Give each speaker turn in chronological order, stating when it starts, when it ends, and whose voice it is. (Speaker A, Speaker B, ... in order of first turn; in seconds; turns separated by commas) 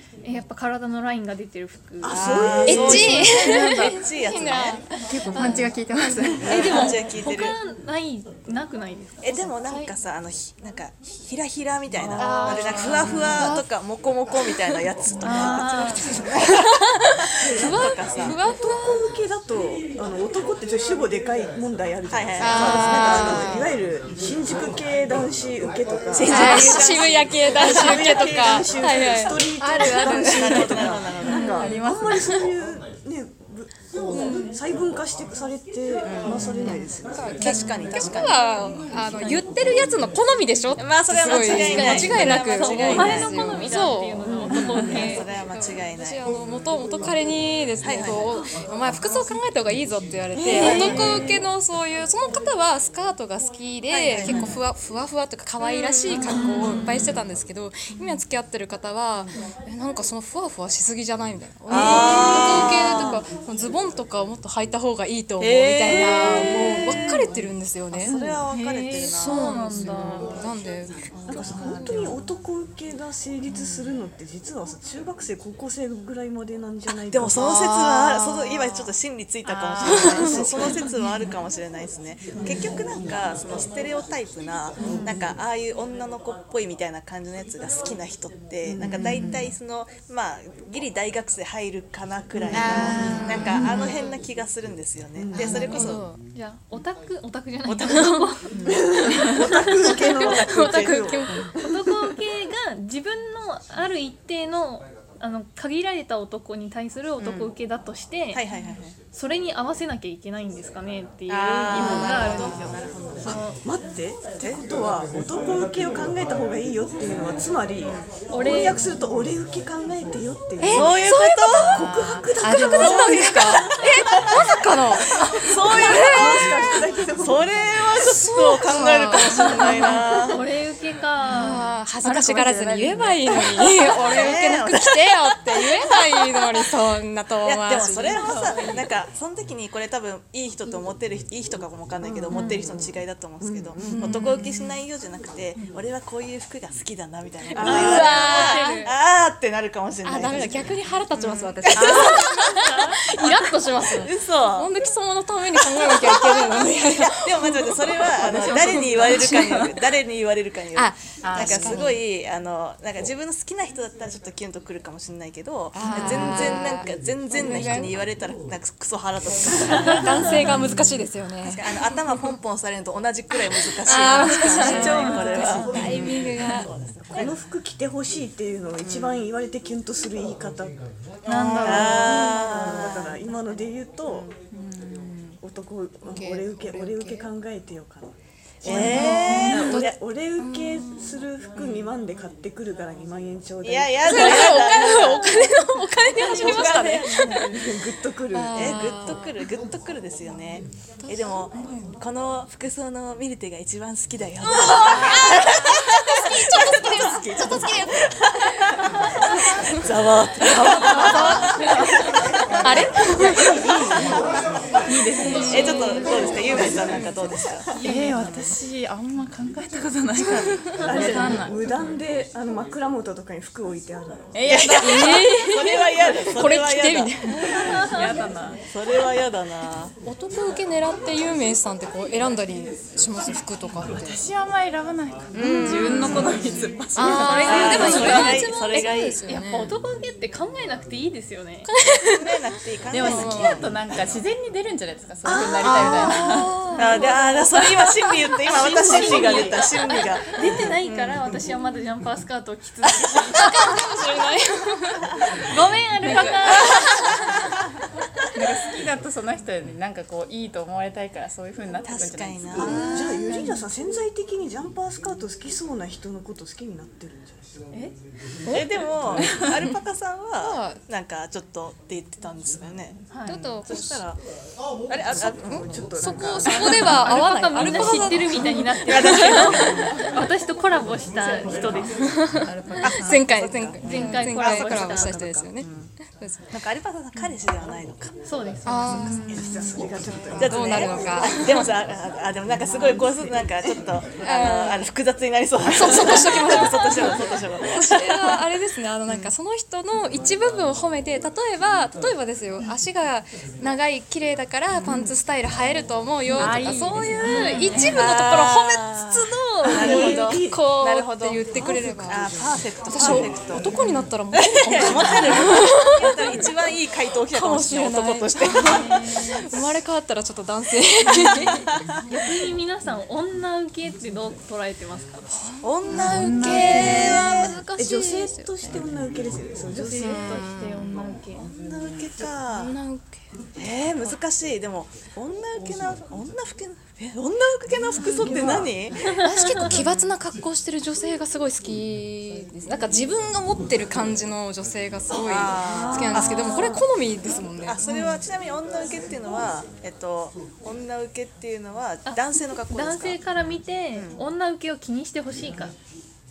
Speaker A: 0.2-3.1, Speaker B: 2.0-3.3, Speaker C: 2.0-4.8, Speaker D: 2.6-6.4, Speaker E: 5.1-7.0, Speaker C: 6.4-7.6, Speaker A: 6.5-9.7, Speaker C: 9.2-16.7, Speaker D: 9.7-9.9, Speaker B: 12.0-13.1, Speaker D: 12.2-13.7, Speaker A: 15.2-16.1, Speaker B: 17.4-26.8, Speaker D: 17.5-18.9, Speaker C: 17.7-18.4, Speaker C: 22.1-23.4, Speaker D: 22.4-23.7, Speaker C: 26.1-28.5, Speaker D: 26.2-30.5, Speaker B: 27.6-37.1, Speaker C: 30.2-31.6, Speaker E: 30.5-32.5, Speaker D: 31.4-31.8, Speaker D: 34.1-34.5, Speaker C: 36.0-36.5, Speaker D: 36.6-72.1, Speaker C: 37.4-38.5, Speaker C: 40.8-43.5, Speaker A: 41.8-45.3, Speaker C: 44.8-46.3, Speaker C: 47.8-48.3, Speaker B: 50.4-51.2, Speaker A: 50.5-51.2, Speaker C: 50.5-51.3, Speaker C: 53.9-54.6, Speaker C: 55.6-56.4, Speaker C: 61.7-63.2, Speaker C: 65.4-69.6, Speaker A: 68.5-70.5, Speaker C: 71.1-71.5, Speaker B: 71.3-77.5, Speaker E: 71.5-72.2, Speaker C: 77.1-96.0, Speaker D: 77.3-78.9, Speaker E: 79.4-81.1, Speaker D: 79.8-80.6, Speaker B: 80.2-80.8, Speaker B: 84.8-85.3, Speaker B: 88.7-89.4, Speaker D: 89.0-89.3, Speaker E: 89.0-89.5, Speaker B: 92.3-93.4, Speaker D: 92.5-94.1, Speaker E: 93.0-93.6, Speaker B: 95.2-95.7, Speaker D: 95.3-96.2, Speaker A: 96.3-99.0, Speaker C: 97.7-98.2, Speaker D: 97.9-98.1, Speaker B: 98.7-101.8, Speaker A: 99.6-100.1, Speaker D: 100.0-101.5, Speaker C: 100.2-101.1, Speaker A: 101.6-108.4, Speaker C: 107.2-107.5, Speaker C: 108.3-109.0, Speaker A: 109.1-113.6, Speaker C: 111.3-113.4, Speaker D: 111.7-112.1, Speaker B: 113.6-121.0, Speaker C: 114.4-114.7, Speaker A: 118.3-118.8, Speaker D: 120.6-121.8, Speaker C: 120.7-122.1, Speaker B: 121.5-123.8, Speaker E: 121.9-122.2, Speaker D: 122.4-126.7, Speaker C: 122.8-126.5, Speaker B: 125.7-127.5, Speaker C: 127.2-130.4, Speaker D: 127.9-130.0, Speaker A: 130.3-133.2, Speaker D: 131.3-138.2, Speaker C: 133.9-136.6, Speaker C: 137.4-154.7, Speaker A: 138.2-138.8, Speaker E: 138.2-138.6, Speaker B: 142.0-144.2, Speaker A: 142.3-142.7, Speaker D: 143.8-144.8, Speaker D: 147.5-148.9, Speaker B: 147.5-148.1, Speaker A: 147.6-148.9, Speaker D: 150.1-159.7, Speaker C: 155.5-170.9, Speaker B: 158.2-159.1, Speaker D: 160.7-162.0, Speaker E: 161.2-161.8, Speaker D: 165.7-167.9, Speaker D: 169.8-171.7, Speaker C: 171.4-177.4, Speaker D: 173.8-177.3, Speaker A: 174.5-175.4, Speaker E: 174.9-175.6, Speaker B: 177.2-180.8, Speaker C: 178.8-179.2, Speaker A: 181.3-182.3, Speaker C: 181.3-183.2, Speaker D: 181.3-182.5, Speaker B: 181.7-184.3, Speaker C: 184.1-184.3, Speaker E: 184.6-185.0, Speaker B: 185.4-194.6, Speaker D: 186.1-187.3, Speaker C: 188.6-189.9, Speaker D: 188.7-191.2, Speaker C: 191.6-191.9, Speaker C: 193.6-195.6, Speaker D: 194.0-197.5, Speaker C: 196.2-197.5, Speaker B: 196.3-198.8, Speaker D: 198.3-199.3, Speaker C: 198.5-208.7, Speaker D: 201.0-201.9, Speaker D: 204.5-208.0, Speaker D: 209.2-209.8, Speaker C: 209.4-211.7, Speaker E: 210.9-211.2, Speaker D: 210.9-212.1, Speaker D: 212.6-213.4, Speaker C: 213.5-214.1, Speaker E: 214.9-216.0, Speaker D: 215.1-216.4, Speaker C: 215.4-217.8, Speaker E: 217.8-221.6, Speaker A: 217.8-218.2, Speaker B: 220.8-224.5, Speaker E: 224.3-225.2, Speaker C: 224.4-227.1, Speaker D: 224.8-227.5, Speaker A: 227.2-228.6, Speaker E: 227.5-228.6, Speaker C: 228.7-229.9, Speaker D: 230.0-234.2, Speaker E: 233.8-238.3, Speaker D: 235.3-239.7, Speaker C: 235.3-236.2, Speaker A: 237.0-241.7, Speaker C: 237.3-239.2, Speaker D: 241.7-242.4, Speaker C: 242.1-243.7, Speaker E: 242.9-246.5, Speaker D: 242.9-243.7, Speaker D: 245.2-249.3, Speaker C: 245.7-251.4, Speaker A: 246.6-247.7, Speaker A: 248.5-253.5, Speaker E: 248.7-249.6, Speaker B: 250.4-250.7, Speaker D: 253.3-255.2, Speaker A: 255.5-256.9, Speaker E: 256.0-256.6, Speaker D: 256.2-257.3, Speaker E: 258.3-263.6, Speaker C: 261.8-262.8, Speaker B: 262.6-267.5, Speaker D: 262.6-263.3, Speaker C: 268.5-273.1, Speaker E: 269.2-269.5, Speaker D: 270.4-270.8, Speaker A: 273.1-273.5, Speaker D: 273.3-274.1, Speaker C: 273.7-274.2, Speaker C: 274.9-275.7, Speaker B: 275.1-277.0, Speaker D: 275.5-279.6, Speaker A: 276.4-282.1, Speaker C: 278.9-279.9, Speaker C: 281.2-281.5, Speaker D: 281.9-286.4, Speaker E: 282.5-283.2, Speaker C: 282.8-285.9, Speaker A: 283.8-285.2, Speaker C: 286.5-288.1, Speaker A: 288.2-289.1, Speaker D: 288.6-289.3, Speaker C: 288.9-289.2, Speaker E: 289.1-289.9, Speaker B: 289.2-291.5, Speaker D: 290.1-291.7, Speaker C: 290.3-298.4, Speaker B: 292.6-293.8, Speaker D: 294.2-294.8, Speaker D: 295.7-316.4, Speaker C: 299.1-299.3, Speaker C: 304.8-305.1, Speaker E: 306.3-308.0, Speaker A: 307.3-307.8, Speaker C: 307.9-313.8, Speaker B: 309.6-310.6, Speaker B: 311.6-312.5, Speaker C: 314.3-319.8, Speaker D: 317.3-321.6, Speaker A: 318.6-319.4, Speaker A: 322.1-325.3, Speaker D: 325.3-328.5, Speaker C: 325.6-327.6, Speaker E: 326.0-327.0, Speaker A: 326.1-327.1, Speaker B: 327.8-330.4, Speaker A: 329.8-331.5, Speaker D: 330.0-331.1, Speaker C: 331.3-332.8, Speaker D: 332.5-333.2, Speaker C: 333.6-339.1, Speaker B: 338.1-338.8, Speaker A: 339.0-339.8, Speaker D: 339.2-347.8, Speaker C: 345.2-346.9, Speaker C: 347.6-353.2, Speaker A: 347.9-348.2, Speaker A: 352.1-355.7, Speaker C: 353.9-354.2